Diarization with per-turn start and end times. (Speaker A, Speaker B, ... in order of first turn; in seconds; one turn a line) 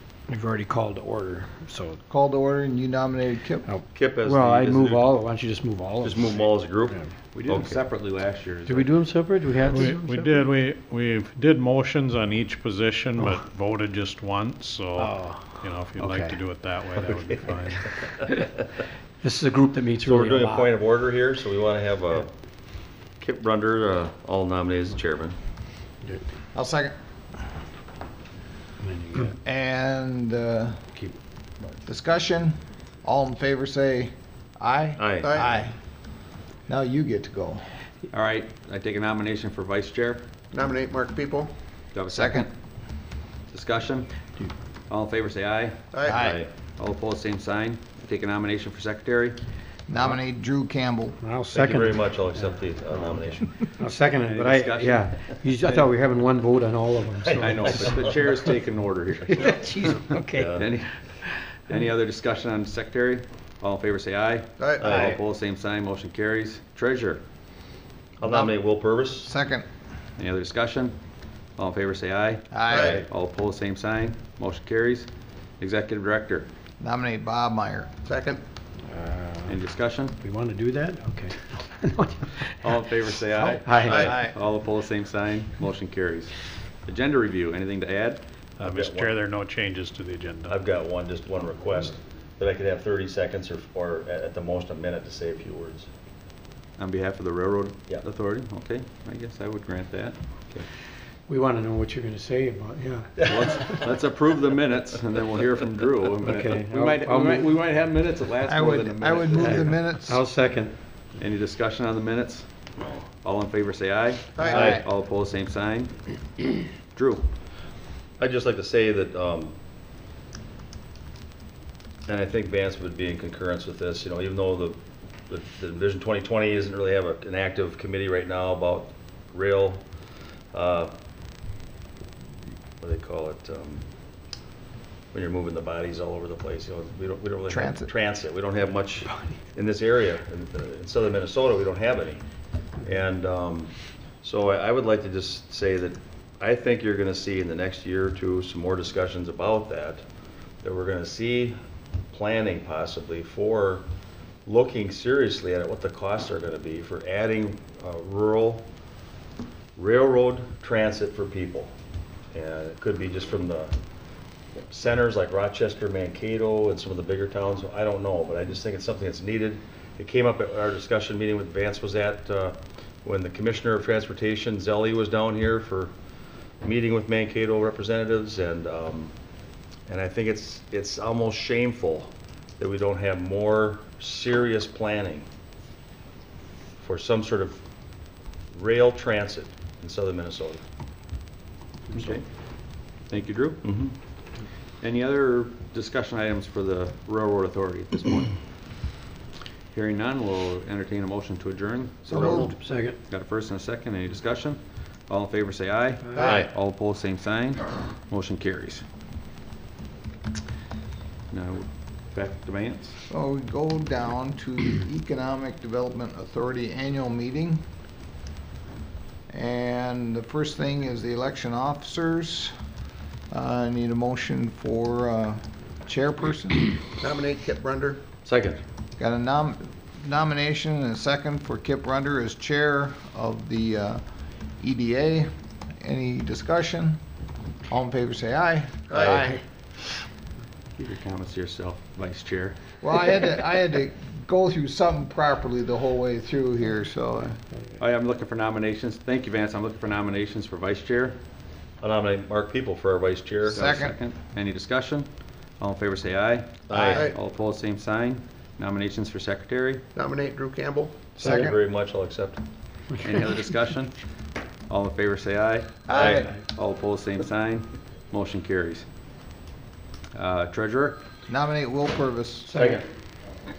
Speaker A: 0.3-2.0
Speaker B: 2.1-3.7
Speaker A: 3.6-7.1
Speaker C: 3.9-5.3
Speaker C: 6.0-7.8
Speaker D: 7.3-8.9
Speaker A: 8.7-10.5
Speaker E: 9.7-18.1
Speaker A: 15.0-17.8
Speaker A: 19.2-20.8
Speaker C: 20.0-25.4
Speaker B: 26.5-26.9
Speaker A: 28.8-29.4
Speaker B: 29.4-30.9
Speaker B: 31.9-35.7
Speaker C: 35.0-35.3
Speaker F: 35.2-35.7
Speaker B: 36.7-37.6
Speaker D: 38.1-40.3
Speaker F: 40.5-41.8
Speaker D: 41.9-42.8
Speaker B: 42.1-42.5
Speaker D: 43.5-46.0
Speaker F: 45.9-46.2
Speaker B: 46.0-46.4
Speaker C: 46.1-46.5
Speaker D: 46.7-49.4
Speaker B: 49.9-51.2
Speaker A: 51.2-58.5
Speaker C: 51.5-53.7
Speaker D: 54.2-55.9
Speaker C: 57.2-58.2
Speaker D: 57.4-59.6
Speaker A: 59.4-60.4
Speaker C: 60.3-60.7
Speaker D: 60.6-67.2
Speaker C: 64.8-65.2
Speaker C: 68.2-69.3
Speaker B: 68.2-69.7
Speaker D: 70.2-76.5
Speaker B: 72.5-73.0
Speaker F: 72.7-73.0
Speaker C: 72.7-73.0
Speaker B: 76.8-77.9
Speaker F: 78.0-78.4
Speaker A: 78.8-79.6
Speaker D: 79.5-80.2
Speaker A: 80.2-82.8
Speaker D: 82.6-88.2
Speaker B: 83.4-84.4
Speaker A: 83.6-84.1
Speaker C: 88.6-89.1
Speaker E: 88.6-90.6
Speaker C: 90.5-95.9
Speaker D: 96.8-100.2
Speaker A: 101.3-103.4
Speaker C: 103.2-104.0
Speaker D: 103.2-109.8
Speaker A: 106.2-107.6
Speaker B: 108.5-110.2
Speaker A: 109.4-110.9
Speaker D: 111.2-116.2
Speaker C: 112.8-113.1
Speaker F: 114.4-114.7
Speaker A: 114.5-114.8
Speaker B: 114.6-114.8
Speaker D: 116.9-117.3
Speaker C: 118.2-119.6
Speaker C: 122.1-129.9
Speaker C: 130.5-130.9
Speaker C: 132.8-133.9
Speaker C: 135.1-142.2
Speaker B: 137.5-137.9
Speaker C: 142.8-150.1
Speaker C: 150.6-151.6
Speaker C: 152.1-153.9
Speaker C: 154.5-158.7
Speaker C: 159.8-161.7
Speaker C: 162.3-163.8
Speaker C: 164.7-175.9
Speaker C: 176.6-179.2
Speaker C: 179.9-185.3
Speaker C: 186.8-187.6
Speaker C: 188.5-190.7
Speaker D: 191.9-198.4
Speaker C: 193.6-194.0
Speaker D: 199.7-208.8
Speaker B: 202.1-202.5
Speaker A: 202.6-203.0
Speaker C: 206.2-206.5
Speaker D: 211.3-213.0
Speaker B: 213.1-217.7
Speaker B: 219.3-222.5
Speaker B: 223.3-226.7
Speaker F: 227.0-228.1
Speaker C: 228.2-228.6
Speaker B: 229.0-237.0
Speaker B: 237.7-239.4
Speaker C: 239.0-239.3
Speaker D: 240.8-242.7
Speaker B: 242.8-247.4
Speaker D: 247.8-251.2
Speaker C: 251.8-253.7
Speaker D: 253.5-259.8
Speaker B: 253.5-254.0
Speaker C: 256.7-257.0
Speaker F: 256.7-257.2
Speaker F: 259.9-261.1
Speaker C: 261.2-262.4
Speaker B: 261.2-261.6
Speaker A: 262.9-263.2
Speaker D: 263.0-268.9
Speaker B: 265.9-266.4
Speaker C: 265.9-266.3
Speaker D: 270.1-271.0
Speaker B: 271.3-272.8
Speaker A: 272.5-272.8